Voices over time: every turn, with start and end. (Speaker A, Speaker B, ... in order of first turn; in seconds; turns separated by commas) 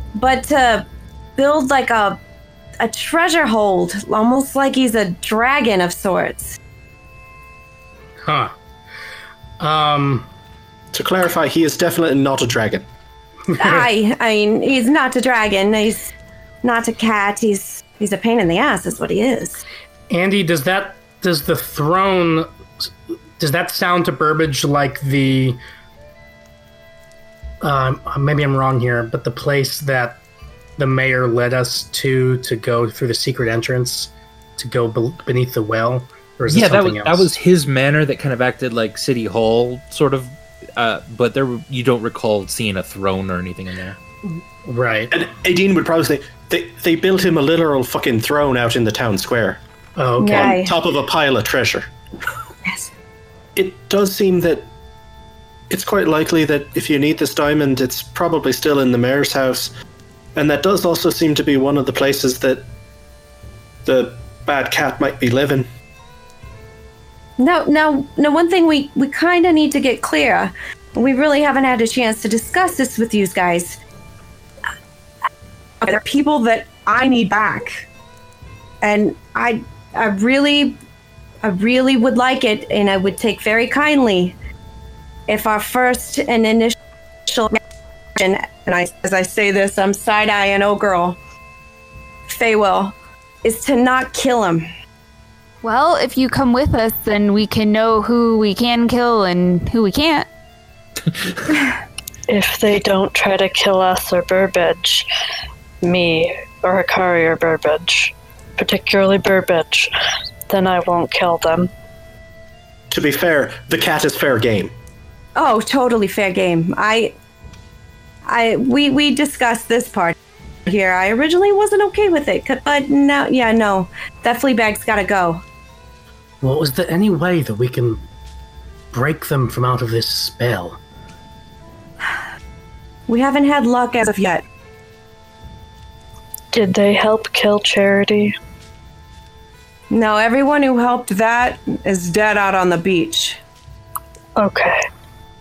Speaker A: 0.2-2.2, Speaker A: 2.8-6.6, Speaker B: 8.2-8.5, Speaker B: 9.6-10.3, Speaker C: 10.9-12.9, Speaker B: 13.5-13.9, Speaker A: 13.6-16.1, Speaker A: 16.6-19.6, Speaker B: 20.1-25.6, Speaker B: 27.6-30.2, Speaker B: 30.8-37.3, Speaker D: 36.5-44.0, Speaker B: 44.2-45.1, Speaker C: 45.1-49.6, Speaker B: 50.0-50.6, Speaker A: 50.2-50.8, Speaker C: 50.3-51.9, Speaker C: 53.6-54.7, Speaker C: 55.7-59.7, Speaker C: 60.4-62.7, Speaker C: 63.9-65.7, Speaker A: 67.4-73.8, Speaker A: 75.8-77.8, Speaker A: 78.8-80.8, Speaker A: 81.4-84.4, Speaker A: 85.3-87.6, Speaker A: 88.2-91.2, Speaker A: 92.3-94.7, Speaker E: 95.6-100.3, Speaker F: 102.3-105.1, Speaker F: 105.8-109.9, Speaker F: 110.5-111.7, Speaker C: 112.9-114.7, Speaker A: 115.4-117.2, Speaker A: 118.3-125.4, Speaker B: 126.4-128.0, Speaker B: 128.9-130.8, Speaker A: 133.1-134.4, Speaker F: 136.5-138.3, Speaker A: 139.9-143.4, Speaker F: 144.4-144.8